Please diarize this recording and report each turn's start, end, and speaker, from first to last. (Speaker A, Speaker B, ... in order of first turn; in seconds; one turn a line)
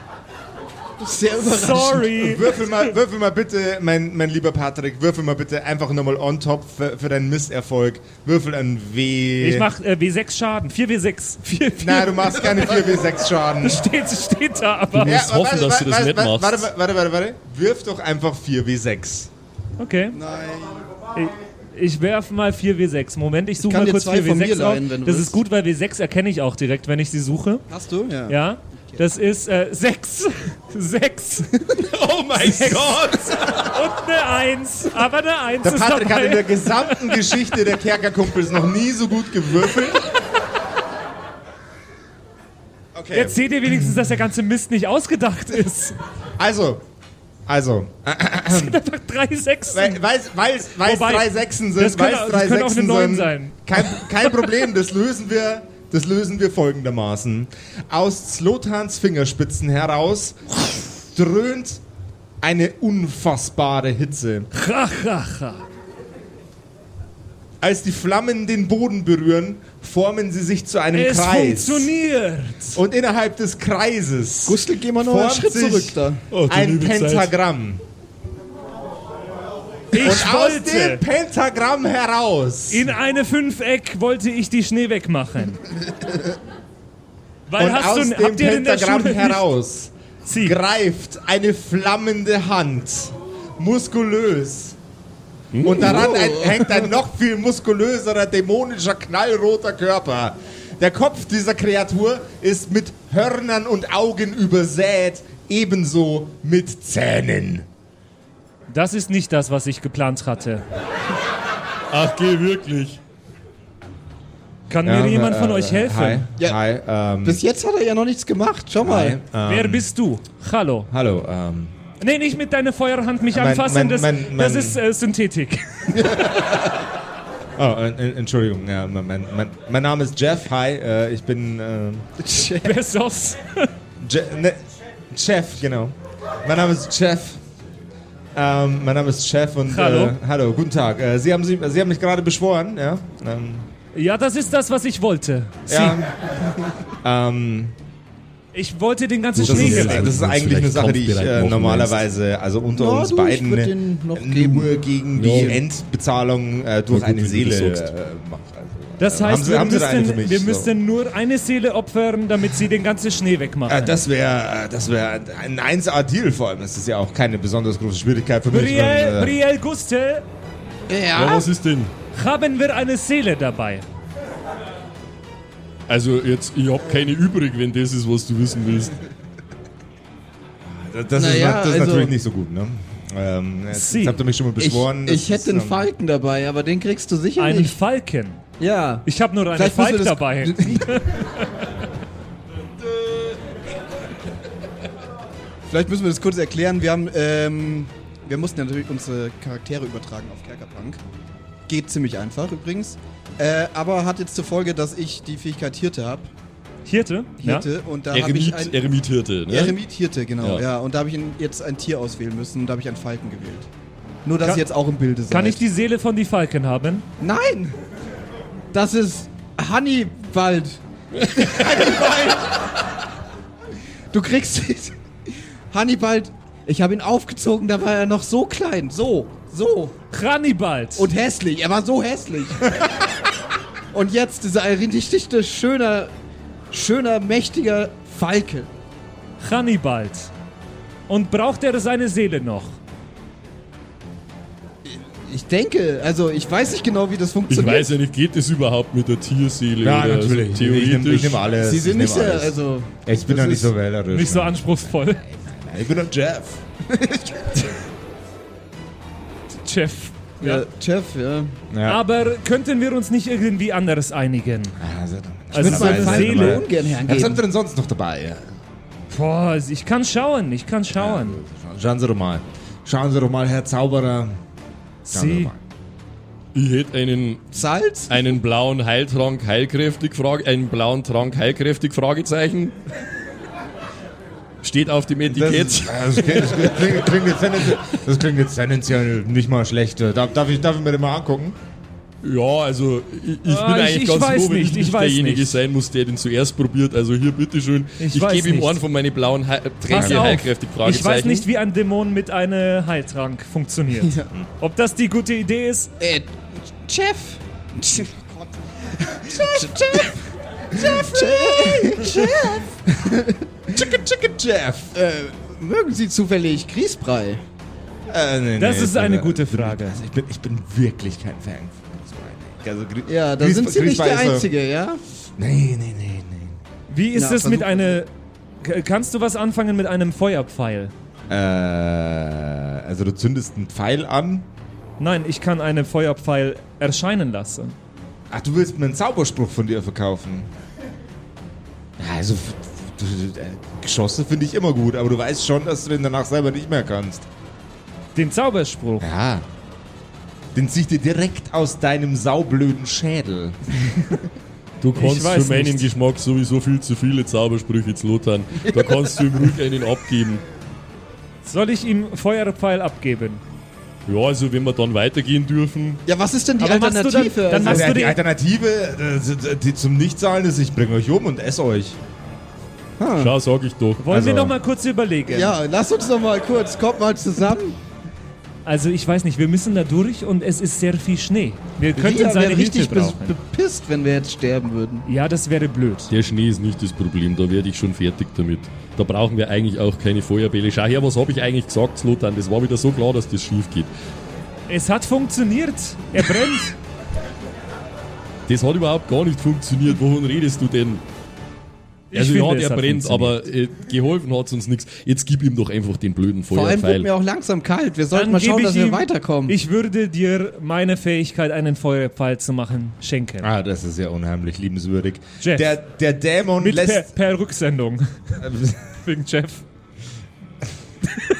Speaker A: 1.0-2.1
Speaker B: 1.4-2.8
Speaker C: 2.2-9.7
Speaker B: 9.4-12.9
Speaker C: 11.8-13.8
Speaker B: 13.6-15.2
Speaker D: 14.9-16.7
Speaker C: 15.0-19.3
Speaker B: 19.8-20.2
Speaker A: 20.1-20.9
Speaker B: 21.1-27.6
Speaker A: 23.6-25.4
Speaker A: 27.7-29.0
Speaker B: 28.3-37.1
Speaker D: 31.8-33.7
Speaker C: 35.6-40.0
Speaker C: 43.0-43.4
Speaker B: 43.1-46.0
Speaker C: 46.4-46.9
Speaker C: 47.5-48.8
Speaker B: 48.5-50.0
Speaker C: 49.7-61.8
Speaker B: 50.7-54.5
Speaker C: 62.4-64.5
Speaker B: 64.5-65.7
Speaker C: 67.6-71.9
Speaker B: 70.9-72.8
Speaker C: 72.8-77.8
Speaker A: 74.5-76.2
Speaker D: 76.3-77.3
Speaker B: 79.9-81.0
Speaker C: 80.0-82.9
Speaker B: 82.7-85.6
Speaker B: 87.5-89.5
Speaker C: 87.6-94.8
Speaker B: 90.3-90.6
Speaker D: 95.5-96.1
Speaker C: 95.6-107.7
Speaker A: 95.7-96.9
Speaker B: 108.7-110.7
Speaker D: 111.9-113.0
Speaker B: 114.7-116.3
Speaker C: 114.8-117.4
Speaker A: 117.2-119.2
Speaker C: 118.8-119.9
Speaker B: 119.5-120.9
Speaker C: 120.9-121.8
Speaker B: 122.0-126.3
Speaker C: 123.3-124.8
Speaker A: 125.9-126.5
Speaker C: 127.6-132.1
Speaker A: 132.2-132.8
Speaker B: 132.6-133.7
Speaker C: 134.0-137.4
Speaker C: 138.3-143.7
Speaker B: 139.7-140.2
Speaker B: 143.9-146.0
Speaker C: 145.7-146.3
Speaker C: 147.0-147.7
Speaker B: 148.5-150.1
Speaker D: 149.4-152.0
Speaker C: 149.4-160.7
Speaker A: 152.7-155.6
Speaker D: 155.2-155.6
Speaker D: 156.9-157.9
Speaker B: 159.0-164.0
Speaker C: 163.7-169.4
Speaker B: 168.5-170.2
Speaker A: 170.9-171.5
Speaker D: 171.2-171.9
Speaker B: 172.1-173.9
Speaker D: 175.9-178.9
Speaker C: 180.7-185.8
Speaker A: 181.2-182.2
Speaker B: 183.7-184.2
Speaker A: 184.6-187.7
Speaker B: 187.4-188.4
Speaker A: 188.6-191.1
Speaker B: 189.1-191.5
Speaker A: 195.7-201.0
Speaker A: 201.7-206.3
Speaker B: 206.8-207.7
Speaker A: 207.4-208.8
Speaker D: 208.1-209.8
Speaker A: 209.5-213.7
Speaker A: 214.2-215.6
Speaker B: 215.3-217.1
Speaker A: 217.2-217.8
Speaker A: 218.7-222.3
Speaker C: 221.4-222.5
Speaker A: 224.1-224.9
Speaker A: 225.7-229.9
Speaker B: 230.1-231.1
Speaker A: 231.0-232.7
Speaker A: 233.9-236.1
Speaker A: 236.7-238.7
Speaker B: 239.4-240.3
Speaker B: 241.1-242.8
Speaker A: 244.8-247.9
Speaker D: 247.5-251.4
Speaker C: 249.8-252.5
Speaker A: 251.6-253.7
Speaker C: 253.1-256.6
Speaker B: 254.1-255.2
Speaker A: 256.9-257.7
Speaker B: 259.6-260.6
Speaker A: 260.4-261.6
Speaker C: 261.7-262.0
Speaker B: 261.9-264.8
Speaker C: 264.8-268.5
Speaker B: 265.5-266.6
Speaker A: 265.5-267.4
Speaker B: 269.1-271.4
Speaker C: 270.9-274.4
Speaker B: 275.1-275.5
Speaker C: 275.1-275.6
Speaker D: 276.6-282.8
Speaker A: 277.5-278.4
Speaker D: 284.6-287.1
Speaker C: 285.3-291.6
Speaker D: 292.2-301.5
Speaker B: 293.5-295.6
Speaker B: 298.0-298.8
Speaker B: 299.9-305.9
Speaker C: 299.9-300.3
Speaker A: 304.0-304.3
Speaker A: 306.0-310.2
Speaker C: 309.2-310.2
Speaker C: 310.7-312.7
Speaker A: 310.7-313.9
Speaker C: 313.7-314.9
Speaker A: 314.9-317.4
Speaker C: 318.1-324.5
Speaker B: 318.6-320.0
Speaker A: 323.1-325.0
Speaker C: 325.4-326.6
Speaker B: 326.9-328.1
Speaker A: 327.1-328.0
Speaker B: 328.6-330.9
Speaker C: 331.3-334.5
Speaker B: 335.0-337.8
Speaker C: 338.3-340.5
Speaker C: 342.0-347.3
Speaker B: 348.1-349.1
Speaker C: 349.0-349.5
Speaker C: 350.5-353.6
Speaker D: 354.8-360.4
Speaker B: 355.0-355.9
Speaker A: 358.6-359.5
Speaker B: 361.4-363.4
Speaker D: 364.1-366.0
Speaker A: 366.1-368.0
Speaker B: 366.6-368.2
Speaker C: 367.6-372.0
Speaker A: 373.0-373.4
Speaker D: 373.2-374.0
Speaker B: 374.0-375.6
Speaker C: 374.1-374.6
Speaker A: 375.3-377.8
Speaker B: 378.6-383.4
Speaker A: 381.9-385.1
Speaker B: 385.1-386.1
Speaker D: 386.1-393.9
Speaker B: 394.7-396.8
Speaker D: 398.5-401.0
Speaker B: 402.1-403.4
Speaker D: 402.1-407.1
Speaker A: 406.5-409.6
Speaker B: 408.1-413.5
Speaker C: 413.4-417.1
Speaker B: 415.4-415.7
Speaker B: 416.6-418.4
Speaker C: 418.4-418.8
Speaker B: 419.0-419.6